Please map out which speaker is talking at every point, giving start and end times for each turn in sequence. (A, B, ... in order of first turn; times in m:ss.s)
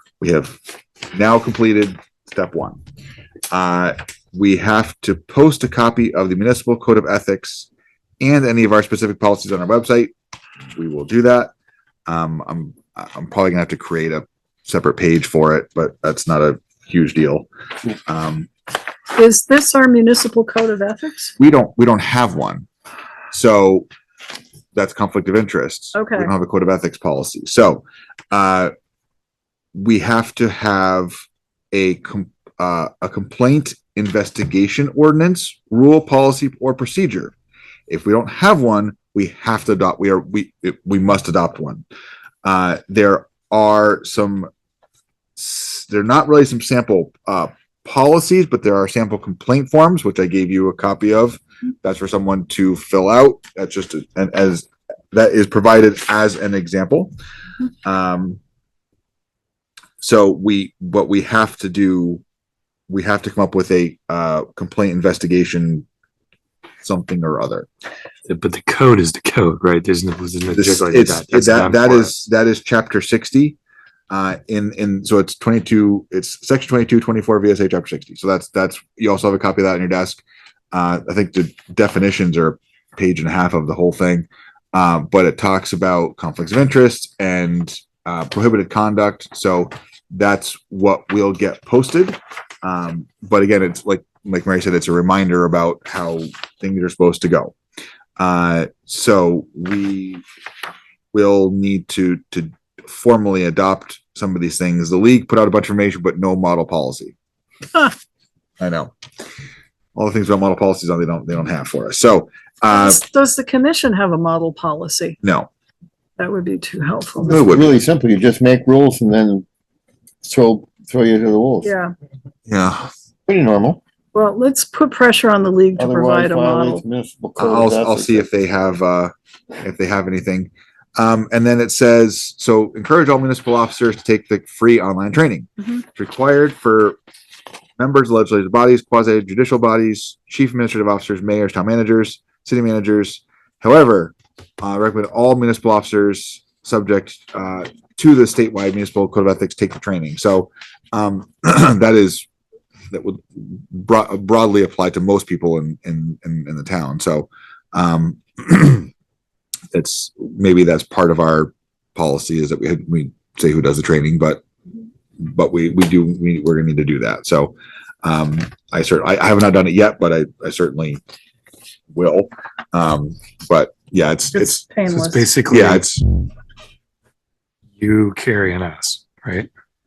0:00.2-0:00.6 A
0:01.1-0:02.8 A
0:03.5-0:07.7 A
0:08.2-0:10.1 A
0:10.8-0:11.5 A
0:12.1-0:17.5 A
0:18.0-0:18.5 A
0:19.1-0:21.3 B
0:21.4-0:22.7 A
0:23.3-0:23.9 A
0:24.7-0:28.7 A
0:25.9-0:26.3 B
0:29.7-0:37.3 A
0:37.9-0:41.8 A
0:42.4-0:44.5 A
0:45.4-0:57.1 A
0:57.8-0:58.4 A
1:00.0-1:02.2 A
1:02.9-1:05.8 A
1:06.8-1:07.7 A
1:08.2-1:12.3 C
1:10.5-1:13.6 A
1:14.1-1:37.6 A
1:38.2-1:40.2 A
1:41.1-1:47.1 A
1:48.6-1:48.9 A
1:49.9-1:53.0 A
1:52.7-1:55.2 B
1:55.2-1:55.5 A
1:56.2-1:57.5 B
1:57.2-1:57.7 A
1:57.2-1:59.4 D
2:00.2-2:01.7 D
2:01.6-2:01.9 B
2:02.5-2:02.9 A
2:03.3-2:03.8 D
2:04.1-2:06.8 B
2:05.8-2:08.2 D
2:07.4-2:17.0 A
2:17.8-2:32.3 A
2:32.9-2:38.9 A
2:39.7-2:44.4 A
2:45.2-2:51.0 A
2:51.9-2:54.6 A
2:54.3-2:55.3 B
2:54.9-2:55.9 C
2:55.5-2:56.0 A
2:57.8-2:59.5 C